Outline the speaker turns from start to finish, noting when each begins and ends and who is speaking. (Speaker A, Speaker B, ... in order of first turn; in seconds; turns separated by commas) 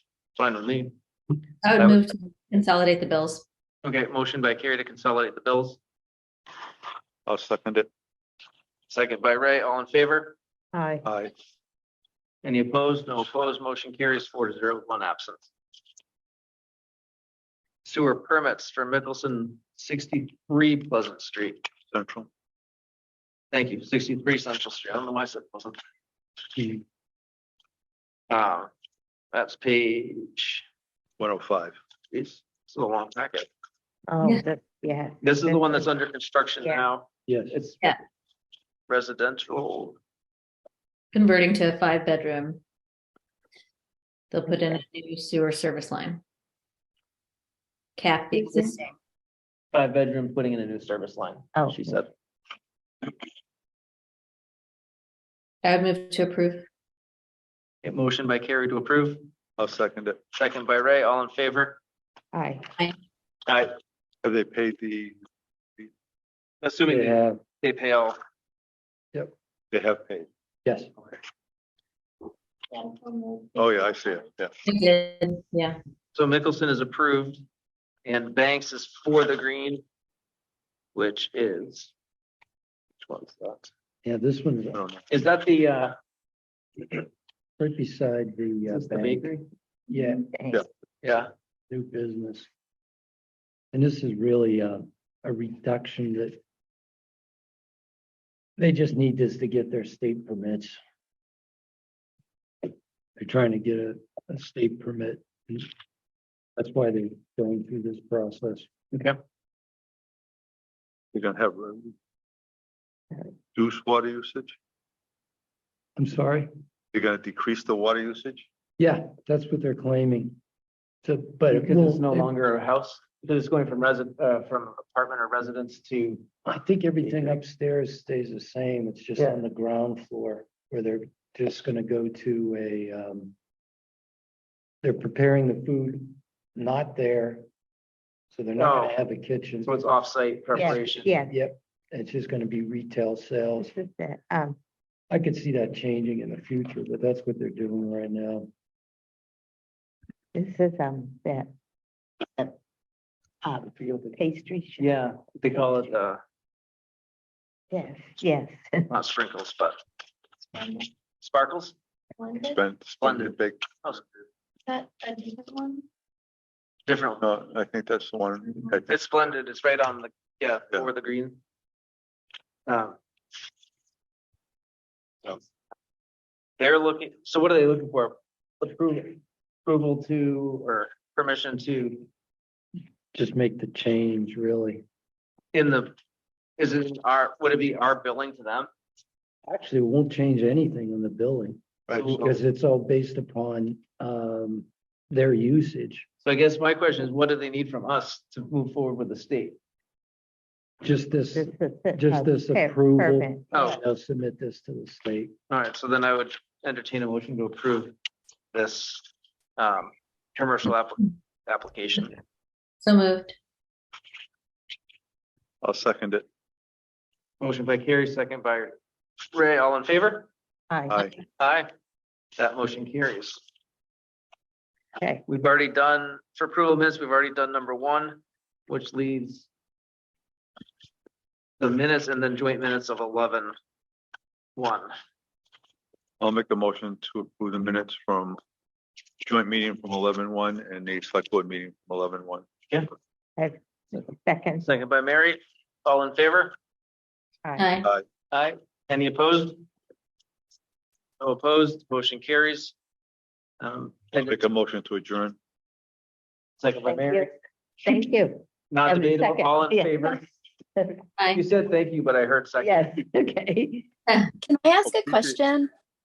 Speaker A: 0.3-0.9, Speaker B: 1.6-3.4, Speaker A: 3.8-5.8, Speaker C: 7.2-7.9, Speaker A: 8.9-10.3, Speaker D: 10.7-11.0, Speaker C: 11.0-11.3, Speaker A: 12.4-15.5, Speaker A: 17.8-21.6, Speaker C: 21.9-22.3, Speaker A: 23.5-25.8, Speaker A: 28.3-28.7, Speaker A: 29.3-30.6, Speaker C: 31.2-31.7, Speaker A: 32.1-33.5, Speaker D: 34.1-35.9, Speaker A: 35.2-37.9, Speaker E: 37.3-37.5, Speaker A: 38.9-40.0, Speaker B: 41.1-42.6, Speaker B: 44.3-46.2, Speaker D: 44.5-44.8, Speaker B: 48.0-48.9, Speaker A: 49.7-52.1, Speaker D: 51.5-51.8, Speaker B: 55.6-56.6, Speaker A: 57.8-59.3, Speaker C: 59.6-60.2, Speaker A: 60.3-61.8, Speaker D: 62.3-62.7, Speaker A: 63.5-63.7, Speaker C: 64.2-65.1, Speaker A: 66.6-68.2, Speaker E: 66.9-67.4, Speaker C: 69.7-70.3, Speaker E: 70.6-70.9, Speaker C: 73.5-74.5, Speaker B: 74.6-75.8, Speaker A: 76.1-77.4, Speaker A: 78.0-79.8, Speaker A: 80.9-81.9, Speaker A: 83.0-83.7, Speaker E: 84.0-84.8, Speaker C: 84.7-85.0, Speaker A: 85.1-85.9, Speaker E: 87.6-89.3, Speaker A: 88.7-89.4, Speaker E: 89.9-90.3, Speaker D: 90.3-90.6, Speaker A: 91.0-91.3, Speaker E: 91.7-92.5, Speaker E: 93.7-96.4, Speaker E: 98.6-100.8, Speaker E: 103.2-105.7, Speaker E: 106.6-108.7, Speaker A: 108.9-109.2, Speaker C: 111.1-111.9, Speaker C: 113.5-114.5, Speaker E: 116.0-116.5, Speaker C: 116.9-118.5, Speaker E: 118.8-120.4, Speaker E: 121.0-122.3, Speaker A: 121.5-126.2, Speaker E: 126.4-133.3, Speaker A: 127.0-127.4, Speaker E: 134.8-137.5, Speaker E: 138.3-139.7, Speaker A: 138.6-138.9, Speaker A: 139.6-141.2, Speaker D: 140.5-141.3, Speaker E: 140.6-143.7, Speaker D: 143.6-144.6, Speaker E: 145.1-148.5, Speaker D: 150.3-151.5, Speaker D: 153.4-155.0, Speaker A: 154.8-156.2, Speaker D: 157.7-158.9, Speaker A: 158.9-159.8, Speaker A: 161.2-161.7, Speaker C: 162.4-163.6, Speaker A: 163.0-164.1, Speaker F: 164.7-165.7, Speaker A: 166.9-167.3, Speaker C: 167.2-168.9, Speaker A: 168.8-171.4, Speaker A: 172.7-173.0, Speaker A: 176.6-182.1, Speaker E: 183.1-184.8, Speaker A: 185.5-185.9, Speaker A: 186.6-188.7, Speaker E: 189.4-196.1, Speaker C: 191.9-192.2, Speaker A: 191.9-192.3, Speaker A: 196.2-199.6, Speaker E: 200.8-205.3, Speaker D: 201.3-203.5, Speaker A: 203.5-203.8, Speaker A: 205.5-207.9, Speaker A: 208.5-212.2, Speaker B: 212.8-213.3, Speaker C: 215.6-216.2, Speaker A: 217.4-218.7, Speaker A: 219.3-220.3, Speaker D: 220.7-221.1, Speaker A: 221.4-221.7, Speaker A: 222.4-223.4, Speaker A: 225.3-229.5, Speaker A: 231.6-233.5, Speaker A: 234.6-234.9, Speaker C: 236.2-238.4, Speaker C: 239.2-242.5, Speaker D: 243.4-244.6, Speaker A: 244.6-246.6, Speaker D: 247.4-247.7, Speaker B: 247.6-247.9, Speaker A: 248.3-249.6, Speaker A: 251.2-252.7, Speaker A: 253.6-254.4, Speaker C: 254.2-255.3, Speaker A: 256.6-257.3, Speaker D: 256.8-257.3, Speaker D: 257.8-260.2, Speaker A: 258.7-260.2, Speaker D: 260.8-261.1, Speaker A: 261.3-262.9, Speaker D: 262.6-263.9, Speaker F: 264.4-265.7, Speaker C: 264.9-265.4